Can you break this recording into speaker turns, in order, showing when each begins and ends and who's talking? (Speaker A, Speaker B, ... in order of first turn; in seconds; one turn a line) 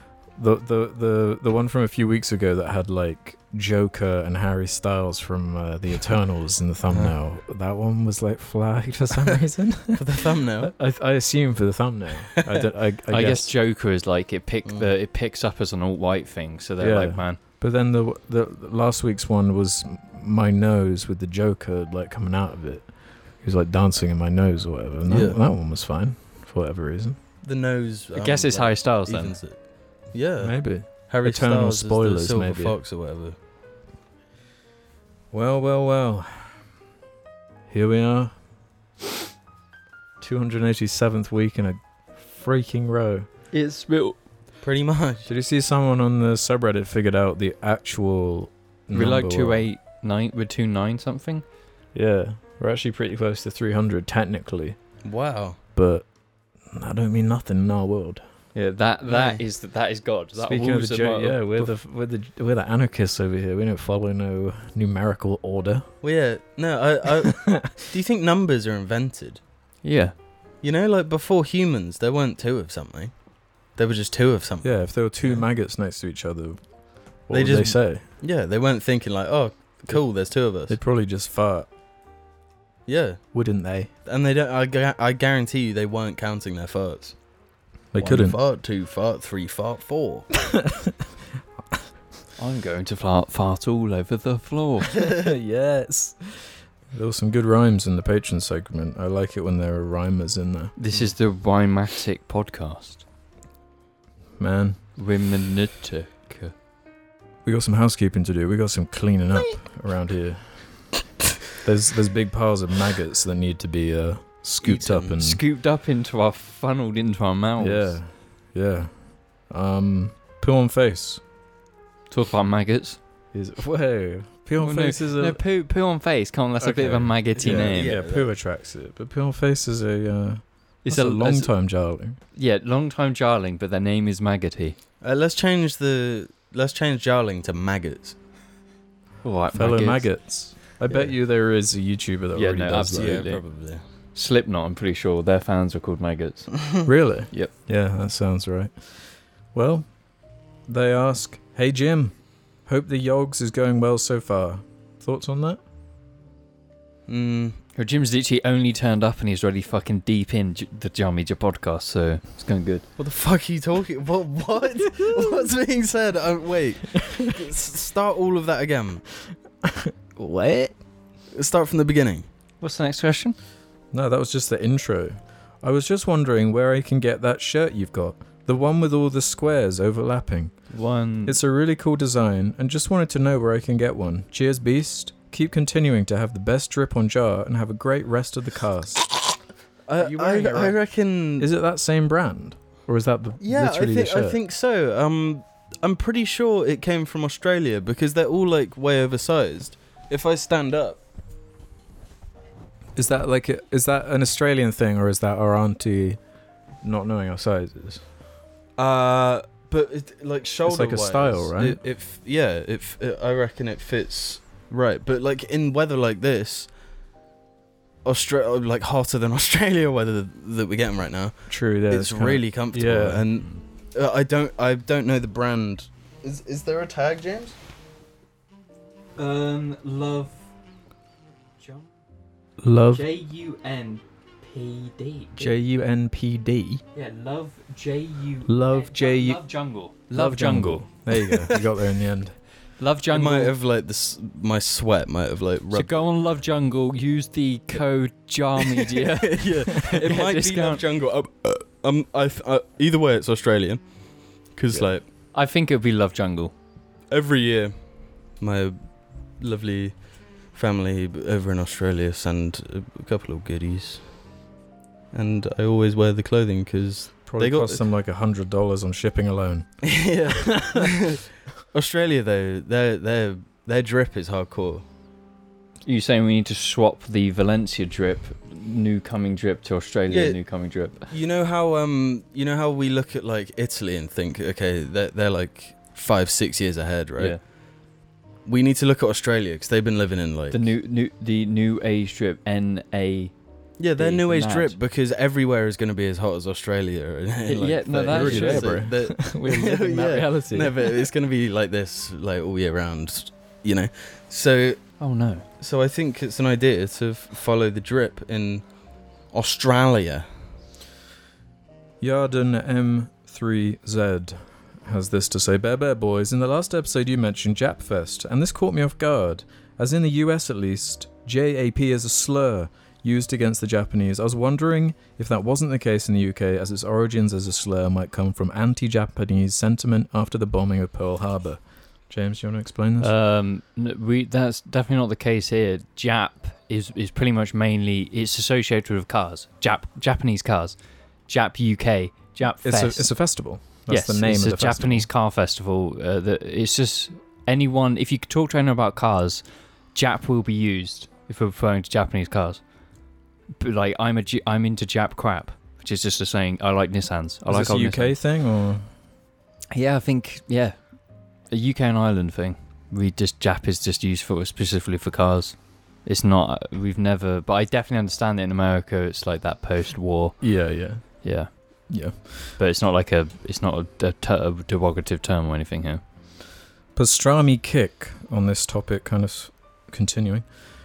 Speaker A: 0.3-13.5
Speaker B: 9.9-10.7
Speaker B: 12.4-12.7
Speaker C: 13.1-17.4
Speaker A: 16.8-22.9
Speaker A: 23.4-27.2
Speaker B: 25.1-25.4
Speaker B: 27.4-29.6
Speaker C: 28.1-29.4
Speaker B: 30.1-33.4
Speaker A: 30.4-32.8
Speaker A: 35.3-36.6
Speaker A: 37.7-38.3
Speaker A: 40.2-43.3
Speaker C: 43.5-44.2
Speaker B: 44.6-45.3
Speaker A: 45.3-49.6
Speaker C: 48.9-51.4
Speaker A: 51.9-54.8
Speaker B: 55.0-55.6
Speaker A: 55.8-56.0
Speaker A: 56.7-58.2
Speaker C: 58.5-61.7
Speaker B: 59.1-59.4
Speaker A: 60.3-65.9
Speaker B: 66.0-69.4
Speaker A: 67.3-67.8
Speaker C: 69.8-70.1
Speaker B: 70.6-73.1
Speaker B: 73.8-75.4
Speaker A: 74.6-76.6
Speaker A: 77.3-78.0
Speaker B: 77.3-80.8
Speaker A: 80.7-81.7
Speaker B: 82.9-83.2
Speaker A: 83.3-83.9
Speaker B: 84.0-87.2
Speaker A: 87.9-88.4
Speaker B: 88.0-90.3
Speaker A: 90.4-91.0
Speaker C: 92.4-95.0
Speaker A: 95.0-100.7
Speaker C: 100.8-103.0
Speaker A: 104.4-104.8
Speaker C: 105.0-106.5
Speaker A: 107.4-110.8
Speaker A: 111.6-115.4
Speaker B: 114.6-115.2
Speaker C: 115.2-118.0
Speaker A: 117.6-121.2
Speaker C: 122.1-123.0
Speaker A: 123.3-125.4
Speaker C: 124.6-128.0
Speaker A: 126.6-132.2
Speaker B: 127.3-128.3
Speaker C: 130.8-131.5
Speaker C: 132.3-134.8
Speaker B: 135.0-138.2
Speaker C: 139.2-140.1
Speaker A: 139.5-143.2
Speaker B: 140.9-141.1
Speaker C: 142.3-143.4
Speaker B: 142.9-143.8
Speaker C: 144.1-146.5
Speaker A: 146.8-148.8
Speaker A: 149.5-149.9
Speaker A: 150.7-152.1
Speaker A: 152.7-155.6
Speaker B: 157.1-157.6
Speaker C: 157.8-162.8
Speaker B: 163.0-169.0
Speaker A: 164.8-165.5
Speaker A: 166.9-167.3
Speaker A: 169.6-170.7
Speaker B: 171.3-172.2
Speaker C: 172.6-173.3
Speaker A: 173.9-180.5
Speaker C: 180.7-181.4
Speaker A: 181.2-189.1
Speaker B: 189.9-191.5
Speaker A: 190.0-190.8
Speaker A: 191.4-194.4
Speaker B: 193.4-201.0
Speaker A: 202.9-206.2
Speaker A: 206.8-208.0
Speaker B: 208.8-216.7
Speaker A: 210.6-211.8
Speaker B: 218.0-227.5
Speaker A: 221.5-223.2
Speaker C: 229.2-230.4
Speaker C: 231.6-231.9
Speaker A: 232.6-233.0
Speaker C: 232.9-235.5
Speaker A: 235.4-236.8
Speaker C: 236.9-240.9
Speaker A: 238.5-239.4
Speaker A: 240.1-242.4
Speaker B: 241.1-241.6
Speaker C: 242.8-243.5
Speaker B: 243.1-246.0
Speaker C: 245.7-250.8
Speaker B: 248.6-253.9
Speaker B: 254.5-255.0
Speaker C: 255.3-256.5
Speaker B: 257.1-257.8
Speaker B: 258.4-258.8
Speaker B: 259.4-260.0
Speaker B: 260.5-264.0
Speaker B: 265.1-267.8
Speaker A: 267.3-269.7
Speaker B: 269.8-274.8
Speaker A: 270.3-270.9
Speaker C: 275.9-281.1
Speaker B: 280.1-280.4
Speaker B: 281.0-287.4
Speaker B: 288.4-290.6
Speaker C: 290.5-293.3
Speaker B: 293.8-304.9
Speaker C: 294.0-294.8
Speaker C: 297.4-298.8
Speaker A: 298.1-301.1
Speaker C: 305.0-305.4
Speaker B: 305.6-308.6
Speaker B: 309.3-310.3
Speaker A: 312.0-333.1
Speaker C: 333.0-340.8
Speaker C: 341.3-343.1
Speaker A: 342.6-345.1
Speaker C: 343.9-349.4
Speaker C: 349.9-352.6
Speaker C: 353.6-358.1
Speaker A: 357.5-358.9
Speaker C: 359.7-360.8
Speaker C: 361.5-365.5
Speaker C: 366.1-370.4
Speaker A: 370.4-371.1
Speaker C: 371.2-371.5
Speaker A: 371.9-372.6
Speaker C: 372.6-376.0
Speaker A: 376.9-380.4